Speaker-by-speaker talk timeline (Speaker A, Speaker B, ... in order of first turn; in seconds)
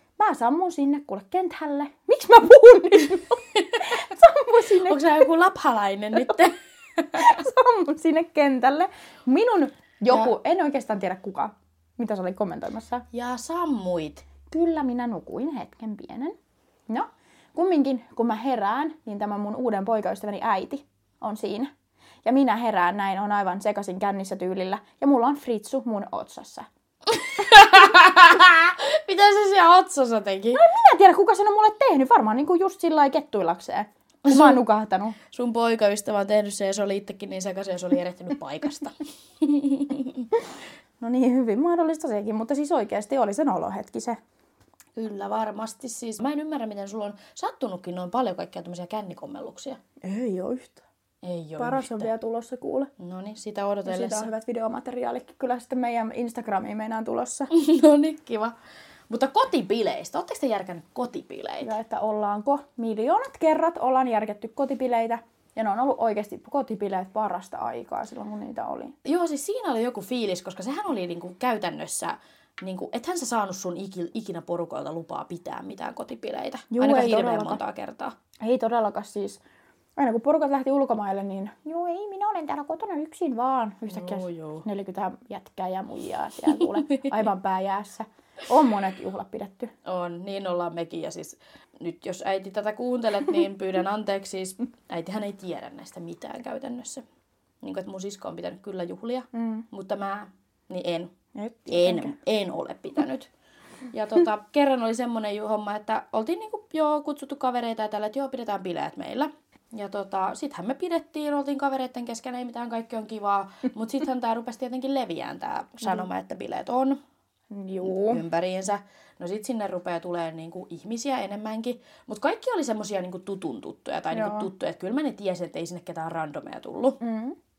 Speaker A: 0.2-5.0, 7.2-13.0, 14.5-16.3, 16.9-21.7, 22.2-26.7, 30.5-35.1, 41.0-44.2, 50.0-50.8, 51.6-52.9, 53.8-57.5, 61.6-68.9, 76.7-77.6, 78.4-79.4, 80.0-89.7, 99.3-99.7, 101.3-102.2, 117.5-118.2, 124.1-124.5, 127.0-127.4
Speaker B: 3.5-4.0, 4.8-7.3, 13.1-14.2, 27.1-30.6, 34.2-34.6, 35.3-40.3, 45.0-49.8, 51.2-52.1, 53.0-54.3, 57.5-58.5, 59.1-61.8, 69.0-78.2, 83.9-84.7, 86.5-87.1, 89.8-97.0, 97.6-101.1, 101.7-103.3, 103.9-117.0, 117.8-127.0